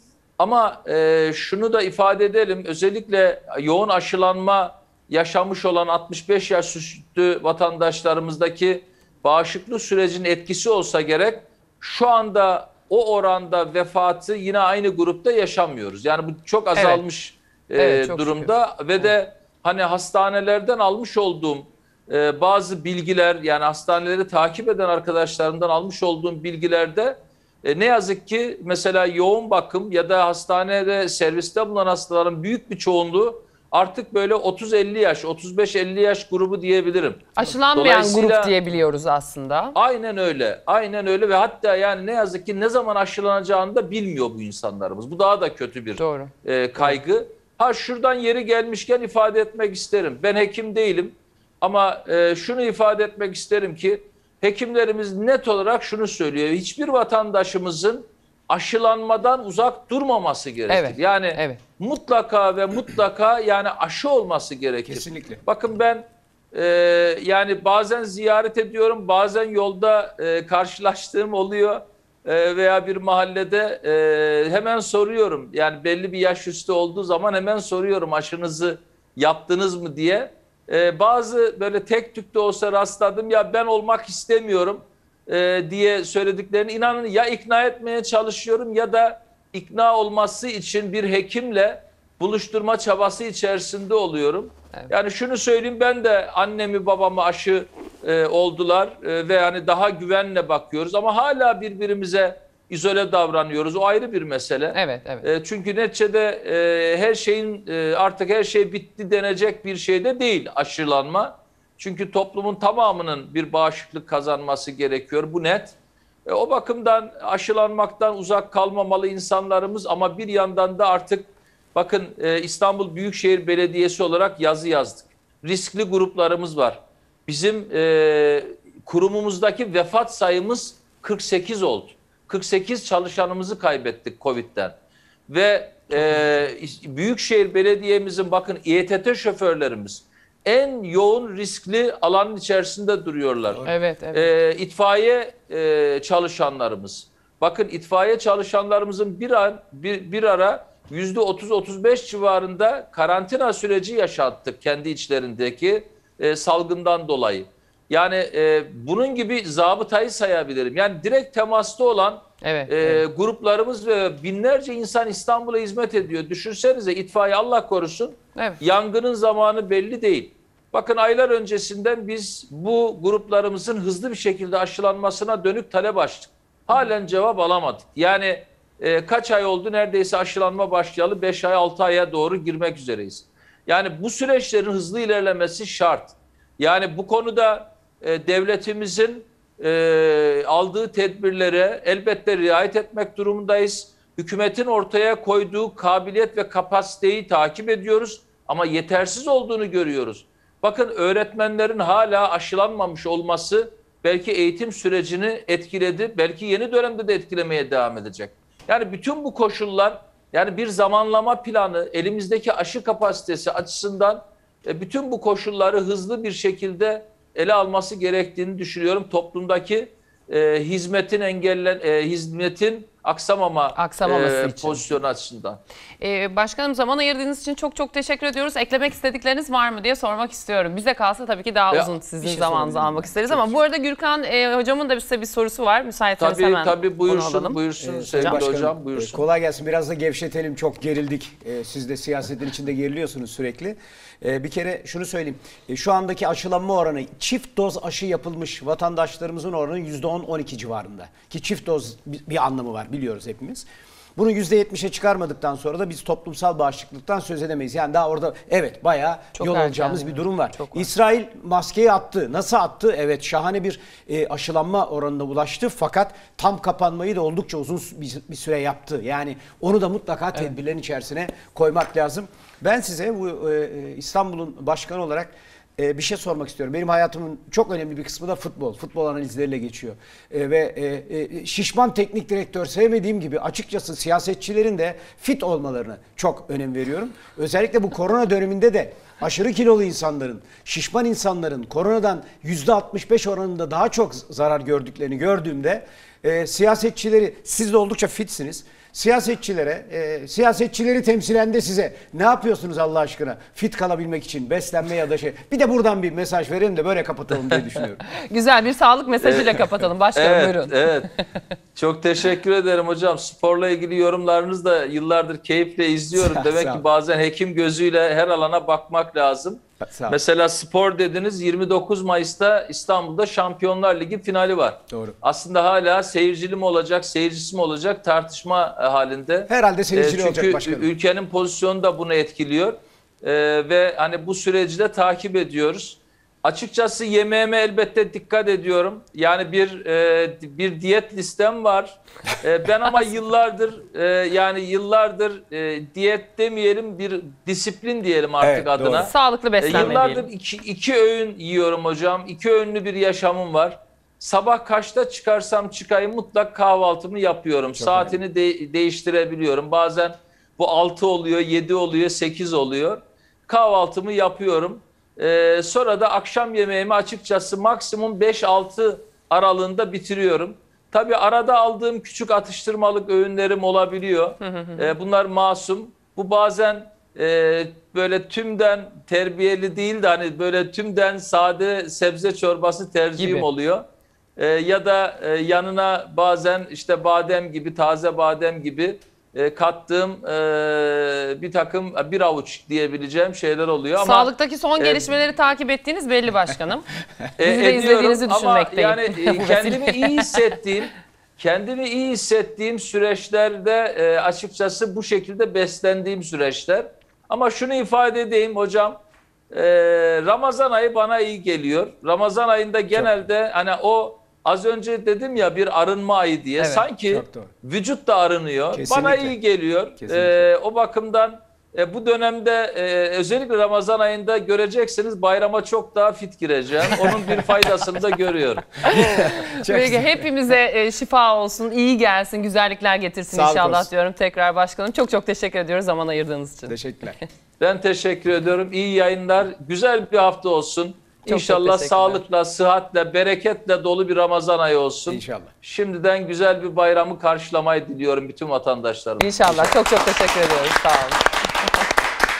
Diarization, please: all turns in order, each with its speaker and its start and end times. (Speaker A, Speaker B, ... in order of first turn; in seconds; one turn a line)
Speaker A: 0.4-38.5
Speaker B: 16.7-17.0
Speaker B: 17.8-18.5
Speaker B: 37.3-39.8
Speaker A: 39.7-134.7
Speaker B: 46.0-47.0
Speaker B: 60.7-61.6
Speaker C: 64.9-65.4
Speaker B: 104.7-105.3
Speaker A: 135.3-225.6
Speaker B: 143.6-144.3
Speaker B: 162.4-163.0
Speaker B: 223.7-224.8
Speaker B: 226.0-237.6
Speaker C: 232.2-233.6
Speaker A: 236.2-239.2
Speaker C: 237.8-308.1
Speaker B: 238.1-238.4
Speaker B: 259.3-260.9
Speaker B: 308.1-311.2
Speaker A: 309.2-309.6
Speaker A: 310.1-311.1
Speaker A: 311.7-383.8
Speaker C: 316.2-316.8
Speaker C: 319.8-320.2
Speaker C: 324.9-325.1
Speaker C: 329.5-330.9
Speaker C: 348.4-349.1
Speaker B: 348.9-350.3
Speaker C: 349.7-350.0
Speaker C: 357.8-358.2
Speaker B: 374.4-374.9
Speaker B: 383.2-383.5
Speaker A: 384.4-395.1
Speaker B: 394.0-396.9
Speaker A: 397.4-409.0
Speaker B: 397.4-400.4
Speaker A: 409.5-428.9
Speaker C: 412.9-413.2
Speaker B: 416.6-416.9
Speaker C: 417.1-417.5
Speaker C: 418.7-419.3
Speaker C: 420.0-420.5
Speaker C: 428.8-430.2
Speaker B: 428.8-436.8
Speaker C: 433.3-433.9
Speaker C: 436.7-437.2
Speaker A: 437.6-449.8
Speaker B: 441.2-442.2
Speaker C: 445.1-445.5
Speaker B: 449.2-451.2